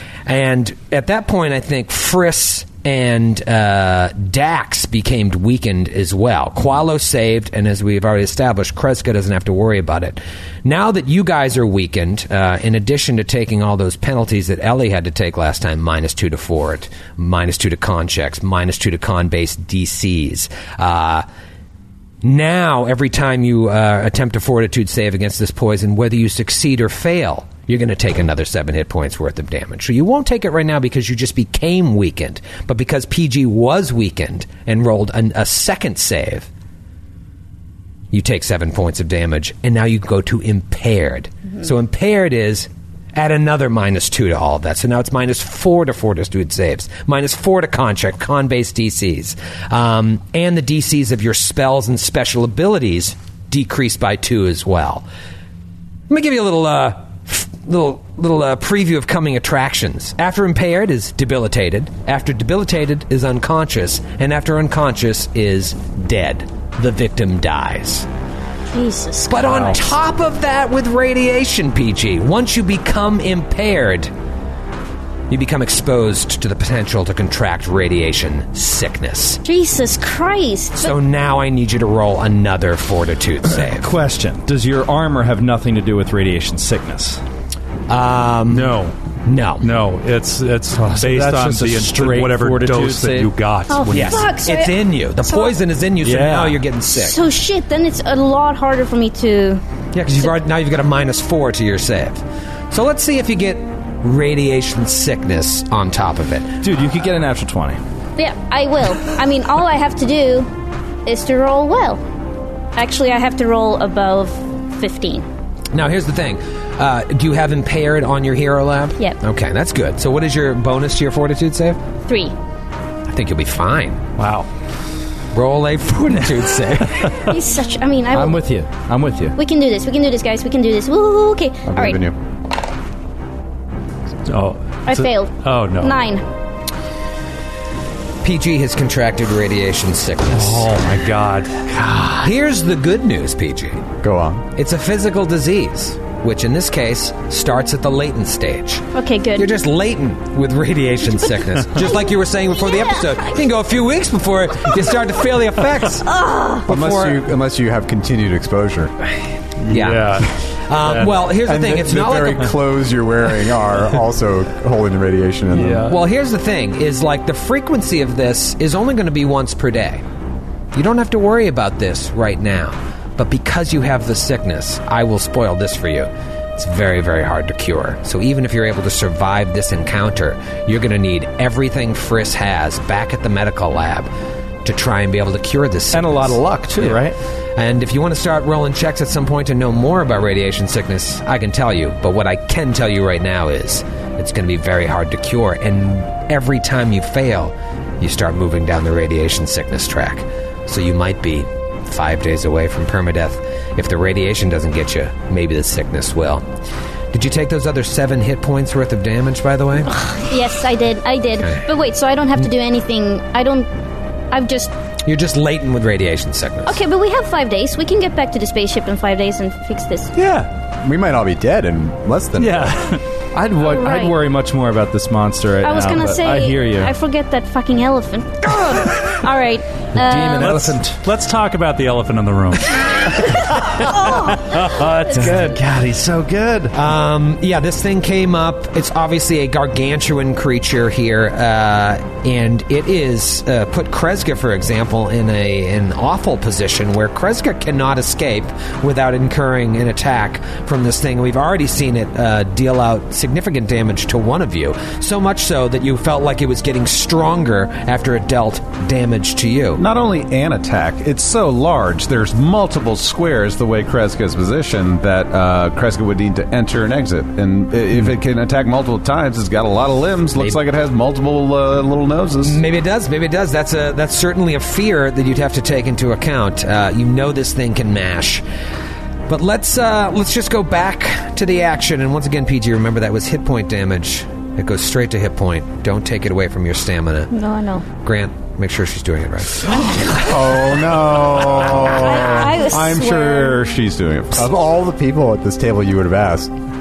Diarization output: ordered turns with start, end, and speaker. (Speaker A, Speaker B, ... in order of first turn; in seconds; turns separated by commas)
Speaker A: 0.2-21.2, Speaker A: 22.2-36.5, Speaker A: 38.1-55.0, Speaker A: 56.1-68.1, Speaker B: 68.7-69.8, Speaker A: 69.3-74.1, Speaker A: 75.3-79.4, Speaker B: 79.4-81.0, Speaker A: 80.8-83.9, Speaker C: 83.7-87.2, Speaker A: 87.9-89.7, Speaker D: 88.5-88.9, Speaker D: 89.6-94.3, Speaker C: 90.7-93.3, Speaker B: 93.7-95.6, Speaker A: 93.9-97.2, Speaker C: 96.0-96.7, Speaker B: 96.9-99.6, Speaker A: 99.9-106.5, Speaker C: 106.6-107.8, Speaker B: 108.2-110.5, Speaker B: 111.0-112.0, Speaker B: 112.8-115.2, Speaker A: 115.7-121.8, Speaker B: 122.1-122.3, Speaker A: 123.1-124.0, Speaker D: 124.2-124.5, Speaker A: 125.3-127.2, Speaker D: 127.0-127.3, Speaker B: 127.2-128.4, Speaker C: 128.1-129.3, Speaker B: 129.3-132.0, Speaker E: 131.7-132.1, Speaker D: 134.3-136.0, Speaker B: 134.9-136.2, Speaker A: 138.2-140.7, Speaker D: 140.3-142.1, Speaker A: 142.2-143.8, Speaker E: 144.0-144.4, Speaker A: 144.6-148.8, Speaker B: 148.9-149.5, Speaker A: 149.3-156.1, Speaker B: 151.8-153.3, Speaker B: 156.1-156.7, Speaker A: 156.7-157.2, Speaker E: 156.7-158.9, Speaker D: 159.6-161.2, Speaker A: 159.7-162.5, Speaker E: 161.3-165.9, Speaker D: 165.5-166.0, Speaker A: 165.8-170.0, Speaker A: 170.7-184.1, Speaker A: 184.6-187.0, Speaker C: 185.9-187.2, Speaker A: 187.6-206.4, Speaker A: 207.1-209.9, Speaker B: 209.9-213.7, Speaker B: 214.3-214.7, Speaker A: 215.0-216.8, Speaker B: 216.7-220.1, Speaker E: 220.8-222.8, Speaker D: 222.4-223.0, Speaker C: 223.3-226.9, Speaker B: 223.6-224.1, Speaker B: 225.6-230.6, Speaker C: 229.9-231.0, Speaker D: 230.4-233.4, Speaker B: 234.0-234.4, Speaker D: 234.3-235.6, Speaker C: 234.7-236.7, Speaker A: 236.7-259.8, Speaker F: 259.8-272.6, Speaker A: 272.4-278.4, Speaker A: 279.3-287.3, Speaker B: 287.3-287.8, Speaker A: 288.0-290.4, Speaker F: 290.1-294.5, Speaker A: 291.5-291.8, Speaker B: 291.8-293.6, Speaker E: 294.3-296.5